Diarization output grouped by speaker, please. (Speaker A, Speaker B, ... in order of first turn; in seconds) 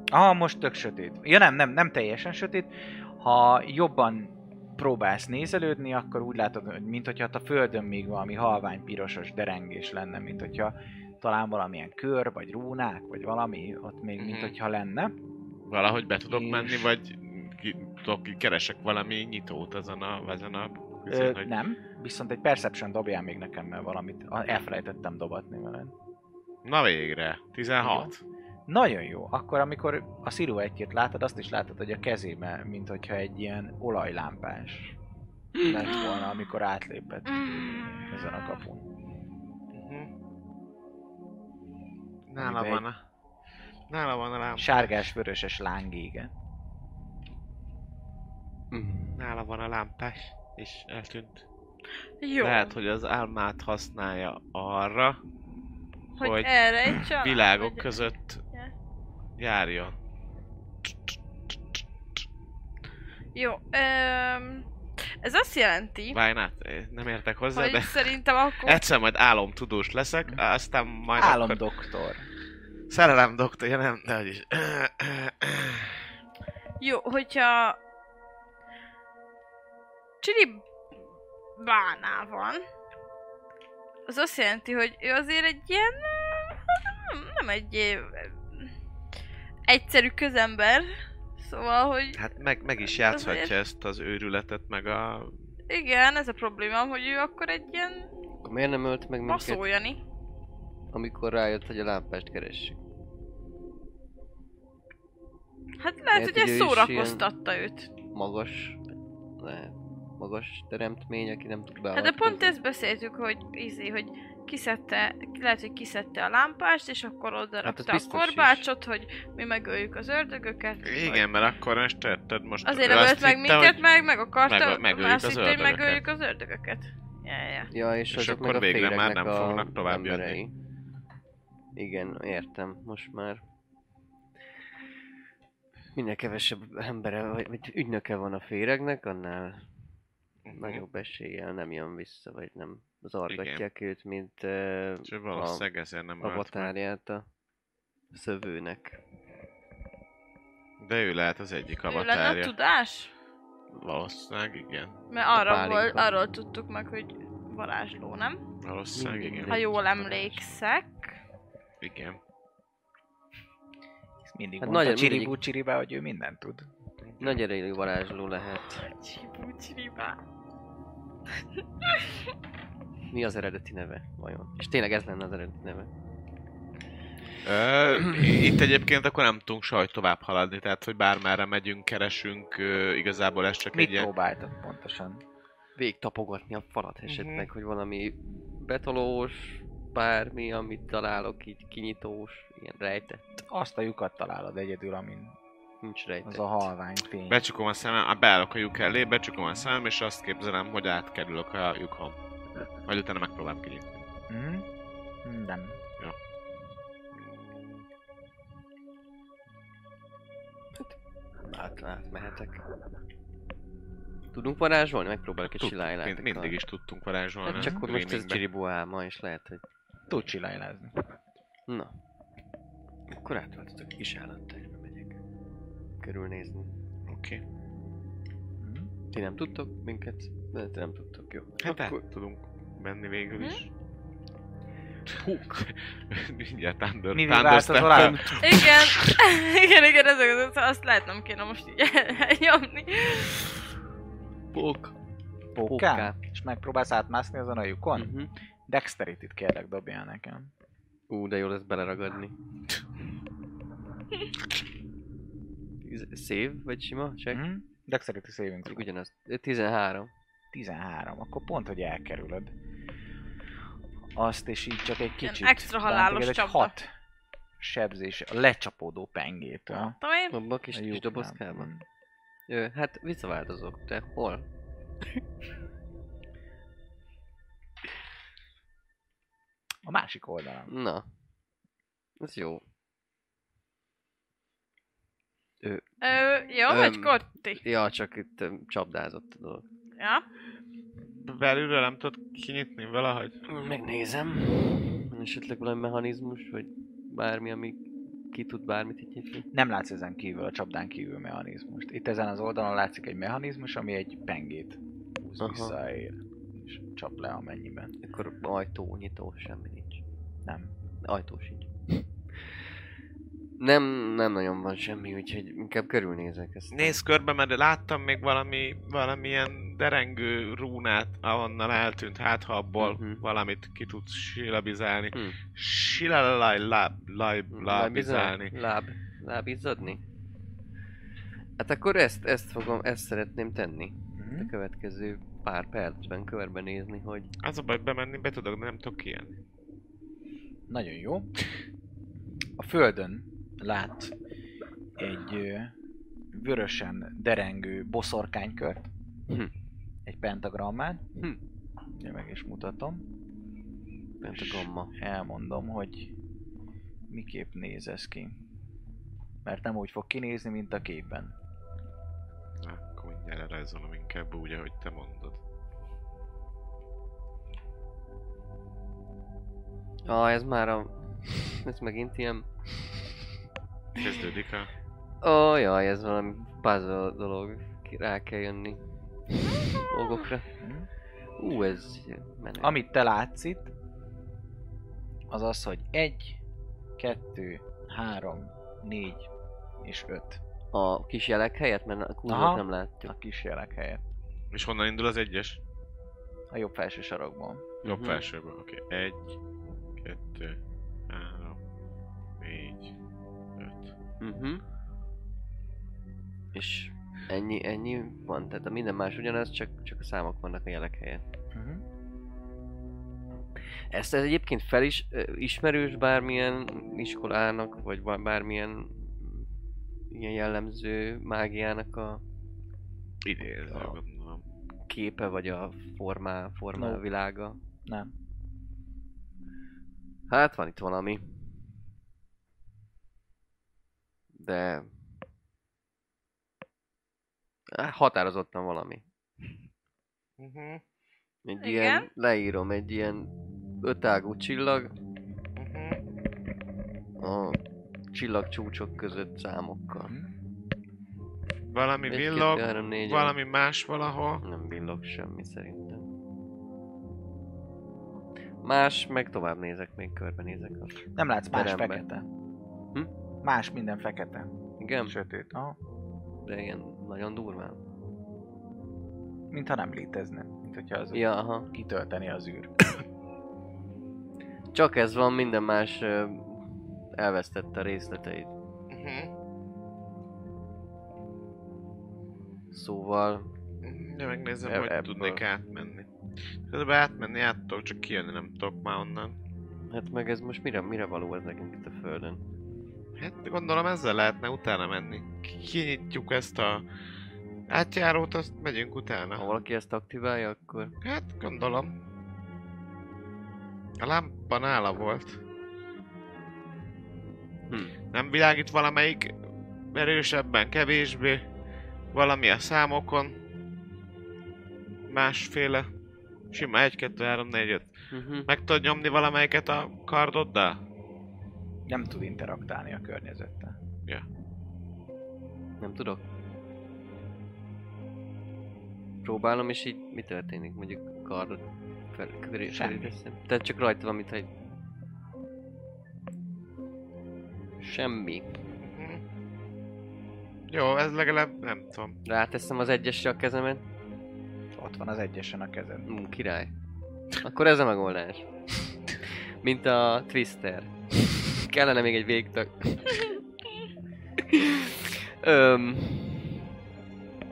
Speaker A: 0.1-15.1, 16.3-16.9, 21.1-25.9, 27.8-28.1, 28.7-35.0, 35.6-38.9, 42.4-42.9, 44.6-46.3, 71.2-72.3, 164.2-166.7, 183.7-185.2, 193.5-195.3, 196.2-197.4, 204.3-204.7, 205.2-205.8, 217.6-217.9, 220.1-220.9, 228.6-228.9, 237.1-238.3, 245.5-248.2, 248.7-250.5, 257.3-258.9, 260.5-262.5, 264.2-266.9, 267.6-270.0, 270.7-271.8, 279.9-280.7, 299.5-307.9, 310.5-310.7, 334.2-334.5, 340.7-341.3, 342.6-344.1, 345.0-345.7, 346.3-348.9, 350.1-351.0, 352.0-353.0, 354.3-356.1, 357.1-358.4, 359.4-361.3, 380.6-380.9, 382.6-383.7, 385.3-386.4, 387.0-389.3, 389.8-390.4, 392.3-394.0, 396.5-397.7, 411.5-411.8, 426.8-427.0, 427.9-428.1, 450.1-450.3, 461.1-462.2, 463.4-464.5, 465.1-465.8, 469.5-472.7, 521.9-523.8, 532.7-533.1, 544.8-546.1
Speaker B: 14.2-14.5, 15.7-21.5, 26.6-28.2, 39.7-40.1, 42.3-43.0, 43.9-45.1, 49.2-51.5, 52.4-55.2, 56.2-58.4, 59.4-60.0, 66.1-71.6, 72.9-76.0, 92.1-95.3, 120.8-123.8, 124.5-126.0, 128.1-130.4, 140.4-140.8, 143.3-143.6, 145.1-146.7, 150.8-152.5, 153.7-155.0, 158.6-159.6, 161.8-162.2, 167.0-167.4, 177.4-184.1, 187.1-187.5, 197.3-202.2, 202.9-204.0, 207.1-207.8, 215.4-218.4, 227.1-227.4, 231.6-233.7, 235.5-239.2, 291.1-293.4, 316.7-328.5, 337.4-339.4, 362.6-365.4, 374.0-374.7, 394.5-395.6, 397.9-399.4, 400.0-400.6, 401.1-401.6, 402.4-402.9, 403.6-403.9, 423.2-424.4, 440.4-440.8, 445.6-446.1, 451.7-454.4, 478.9-479.3, 483.8-486.1, 486.6-489.4, 493.2-496.9, 497.7-499.4, 501.0-502.0, 504.0-505.4, 508.1-509.4, 509.9-511.4, 512.1-513.4, 515.1-515.9, 516.5-517.9, 518.5-520.8, 538.8-539.2, 540.7-542.2
Speaker C: 35.8-36.5, 37.3-38.6, 52.2-52.8, 56.2-58.7, 63.4-64.7, 65.2-66.2, 67.5-68.8, 76.8-77.8, 80.2-80.6, 81.6-82.7, 84.1-88.7, 89.7-92.2, 93.1-93.5, 95.7-98.1, 99.3-100.0, 105.8-107.9, 112.0-121.2, 122.7-127.7, 151.9-153.1, 155.1-158.4, 159.5-161.1, 168.8-170.2, 238.4-243.4, 265.2-266.7, 269.8-270.4, 286.0-287.6, 290.0-290.2, 441.6-442.1
Speaker D: 48.7-49.2, 98.4-99.6, 100.9-102.8, 106.1-107.3, 108.1-108.8, 109.4-112.5, 117.6-118.7, 127.7-130.5, 131.8-133.4, 135.9-139.7, 140.5-145.7, 146.2-147.3, 148.1-149.0, 155.3-156.1, 158.9-160.5, 164.6-165.4, 167.2-168.9, 173.1-175.9, 185.8-193.2, 195.8-196.7, 210.7-212.6, 214.3-216.6, 217.4-219.6, 221.7-222.0, 223.1-225.2, 226.0-226.7, 229.1-232.0, 235.2-235.6, 244.5-245.0, 245.7-246.2, 248.0-248.3, 251.1-252.3, 255.8-257.4, 258.7-260.1, 270.3-271.7, 272.5-274.5, 280.7-281.1, 282.2-282.6, 286.7-289.6, 293.5-297.8, 298.3-299.5, 305.4-305.8, 308.0-310.0, 311.0-312.6, 313.6-317.0, 322.8-323.2, 325.1-325.4, 327.5-330.0, 331.6-337.3, 354.2-354.9, 370.1-373.2, 375.2-380.5, 381.4-382.8, 390.7-393.1, 397.8-398.2, 404.2-404.6, 406.5-411.2, 413.9-419.5, 420.1-422.2, 423.7-424.0, 424.9-427.6, 430.3-431.6, 434.4-434.9, 437.7-439.0, 441.4-444.9, 447.2-447.6, 448.1-450.1, 452.1-453.4, 454.4-456.1, 458.6-462.0, 464.8-465.2, 466.4-467.8, 471.1-471.7, 474.7-478.5, 482.7-483.5, 484.6-485.4, 489.9-492.4, 499.4-500.9, 507.7-507.9, 518.1-518.5, 525.8-526.2, 529.2-534.5, 537.8-538.6, 542.2-543.9, 546.1-546.7, 547.4-548.9, 549.6-553.4, 554.4-556.6